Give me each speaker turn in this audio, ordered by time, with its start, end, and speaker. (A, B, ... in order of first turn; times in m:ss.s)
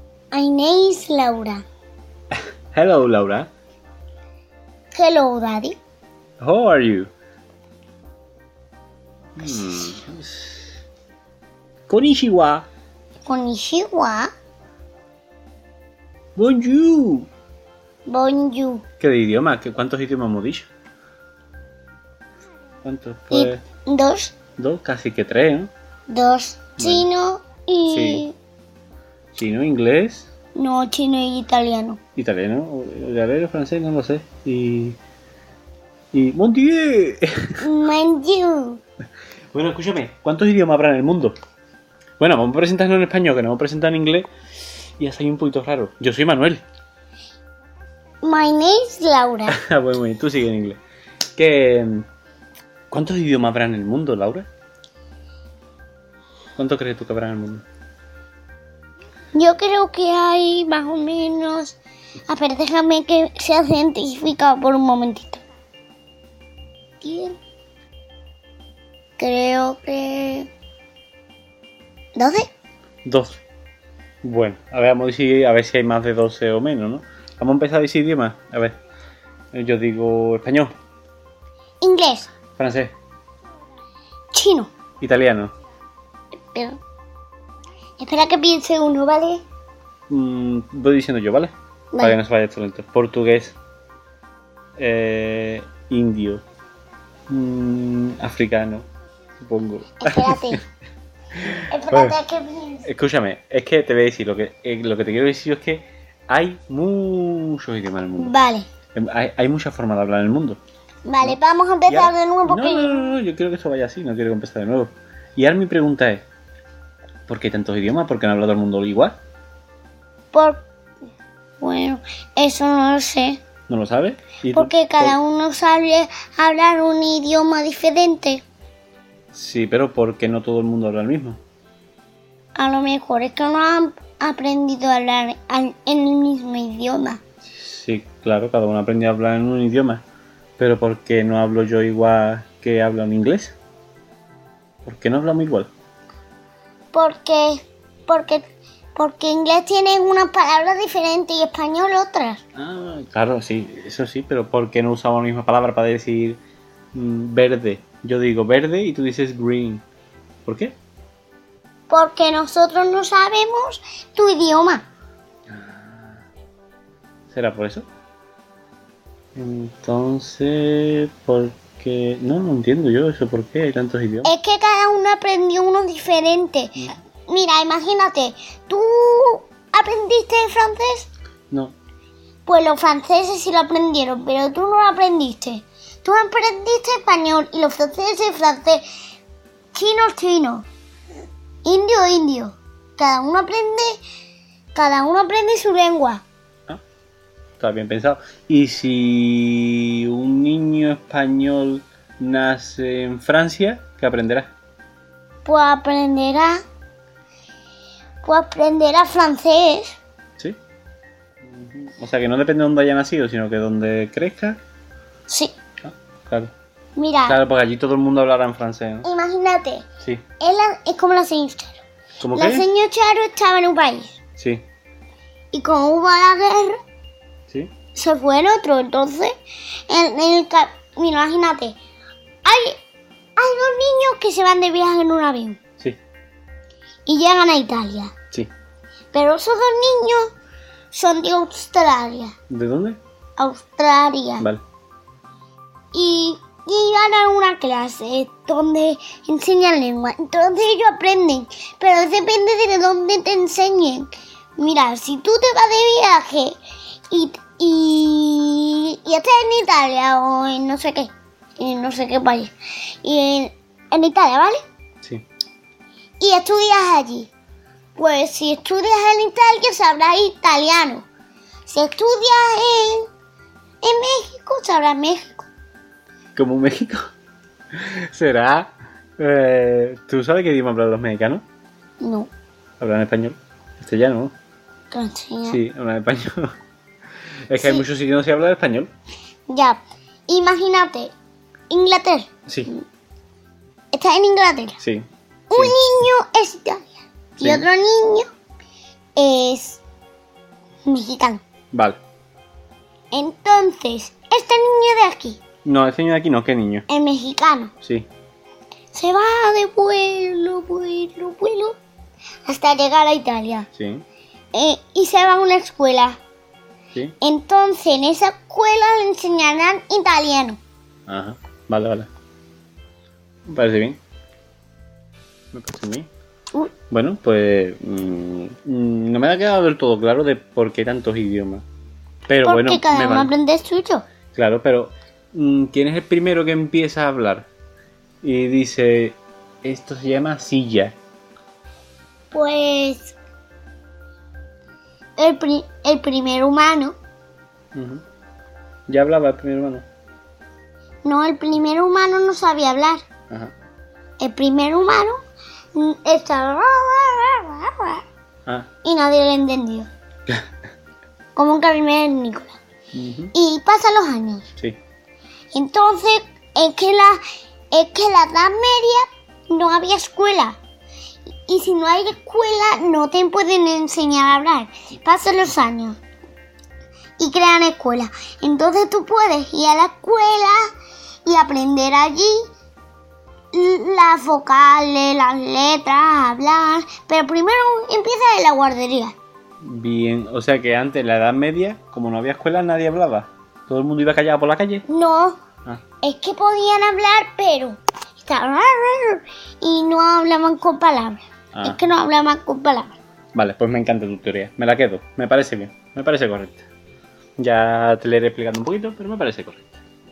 0:00.3-0:01.6 A
0:02.7-0:03.5 B
0:04.9-0:05.8 A
0:06.4-0:07.1 B
0:09.4-0:10.6 B
0:11.9-0:12.7 B
0:13.2-0:14.3 A
0:16.4-0:17.3 B
0:18.1-0:18.8 A
0:19.0-0:20.7 B
0:22.8-0:23.6 B
0:23.3-0:24.4 A
0:24.6-0:25.7 B
0:26.1-0:28.3 A
0:26.8-0:27.1 B
0:27.9-0:28.2 B
0:29.3-0:30.3 B
0:30.6-0:32.0 A
0:32.2-0:35.0 B
0:36.1-0:37.6 B
0:37.6-0:38.8 A
0:39.5-0:41.4 B
0:42.2-0:44.3 B
0:45.0-0:46.6 B
0:48.2-0:49.6 A
0:49.5-0:50.8 B
0:51.4-0:52.1 B
0:52.9-0:54.5 B
0:56.6-0:57.6 B
0:59.4-1:01.8 A
1:02.3-1:05.4 A
1:07.0-1:07.4 A
1:09.2-1:10.5 A
1:12.2-1:12.5 A
1:13.0-1:13.4 B
1:14.2-1:18.8 B
1:19.5-1:20.7 B
1:21.8-1:22.3 A
1:22.6-1:22.9 B
1:24.3-1:24.7 A
1:25.0-1:25.5 B
1:26.5-1:26.8 A
1:28.0-1:29.4 A
1:30.1-1:33.6 B
1:34.8-1:36.4 B
1:37.3-1:38.8 B
1:39.4-1:40.6 B
1:40.0-1:40.6 A
1:41.4-1:42.2 B
1:41.7-1:42.9 A
1:42.8-1:48.4 B
1:48.2-1:48.7 A
1:49.0-1:50.6 B
1:51.1-1:53.2 A
1:51.2-1:56.2 B
1:57.3-1:59.2 B
2:00.3-2:00.7 A
2:01.6-2:03.4 A
2:03.7-2:05.2 B
2:04.5-2:08.4 A
2:09.3-2:11.4 B
2:12.6-2:17.2 A
2:17.4-2:20.0 B
2:20.6-2:23.6 B
2:24.8-2:25.7 B
2:26.9-2:28.4 A
2:29.0-2:32.4 A
2:32.6-2:36.4 B
2:36.9-2:39.8 B
2:40.4-2:40.8 B
2:41.9-2:44.8 A
2:45.5-2:46.2 B
2:47.3-2:47.8 B
2:49.4-2:54.3 B
2:54.2-3:01.1 A
3:02.5-3:08.8 A
3:09.7-3:10.7 A
3:11.6-3:14.0 A
3:14.7-3:16.2 A
3:17.6-3:24.5 B
3:25.4-3:26.6 A
3:28.2-3:29.9 A
3:31.4-3:34.6 B
3:35.3-3:35.5 A
3:35.8-3:36.5 B
3:37.0-3:37.4 A
3:37.3-3:39.1 B
3:39.0-3:39.9 A
3:40.4-3:44.2 A
3:42.2-3:42.7 B
3:44.4-3:44.6 B
3:45.5-3:46.8 A
3:48.0-3:49.4 A
3:49.9-3:51.8 A
3:52.4-3:52.8 A
3:53.4-3:55.6 A
3:57.1-3:58.1 A
3:59.1-4:00.3 A
4:00.9-4:02.4 A
4:02.5-4:03.0 B
4:03.4-4:04.5 A
4:05.9-4:16.6 A
4:17.1-4:24.6 A
4:26.2-4:27.3 A
4:28.0-4:31.1 A
4:31.7-4:33.1 A
4:33.8-4:35.5 A
4:36.4-4:37.0 B
4:37.7-4:41.4 B
4:42.0-4:42.3 A
4:42.8-4:44.3 B
4:44.9-4:45.6 A
4:45.5-4:46.5 B
4:47.5-4:48.9 B
4:47.6-4:47.8 A
4:49.5-4:51.1 A
4:51.7-4:52.8 A
4:52.5-4:52.7 B
4:53.9-4:54.8 A
4:54.8-4:55.8 B
4:55.5-4:58.3 A
4:57.4-4:57.7 B
4:59.2-4:59.8 A
5:00.8-5:01.4 A
5:01.7-5:02.0 B
5:03.1-5:05.4 A
5:05.6-5:06.9 B
5:06.9-5:07.7 A
5:08.9-5:11.8 A
5:12.5-5:13.7 A
5:13.8-5:14.0 B
5:14.5-5:16.2 A
5:17.2-5:20.6 A
5:21.1-5:22.1 B
5:23.5-5:24.0 B
5:25.5-5:26.1 B
5:26.9-5:31.6 B
5:32.3-5:33.3 B
5:32.4-5:34.0 A
5:34.3-5:37.5 B
5:38.2-5:41.0 B
5:42.3-5:43.2 A
5:45.2-5:47.0 A
5:47.8-5:48.0 B
5:48.9-5:49.8 B
5:51.0-5:53.0 A
5:54.2-5:55.2 A
5:55.8-5:58.0 A
5:58.8-5:59.9 A
6:01.4-6:02.6 A
6:02.9-6:03.3 B
6:03.3-6:04.5 A
6:05.5-6:10.6 A
6:11.5-6:16.0 A
6:17.2-6:20.7 A
6:21.2-6:22.5 A
6:23.5-6:29.1 A
6:29.6-6:34.9 B
6:34.9-6:35.4 A
6:36.0-6:43.0 A
6:41.5-6:41.8 B
6:43.4-6:46.6 B
6:47.4-6:49.8 B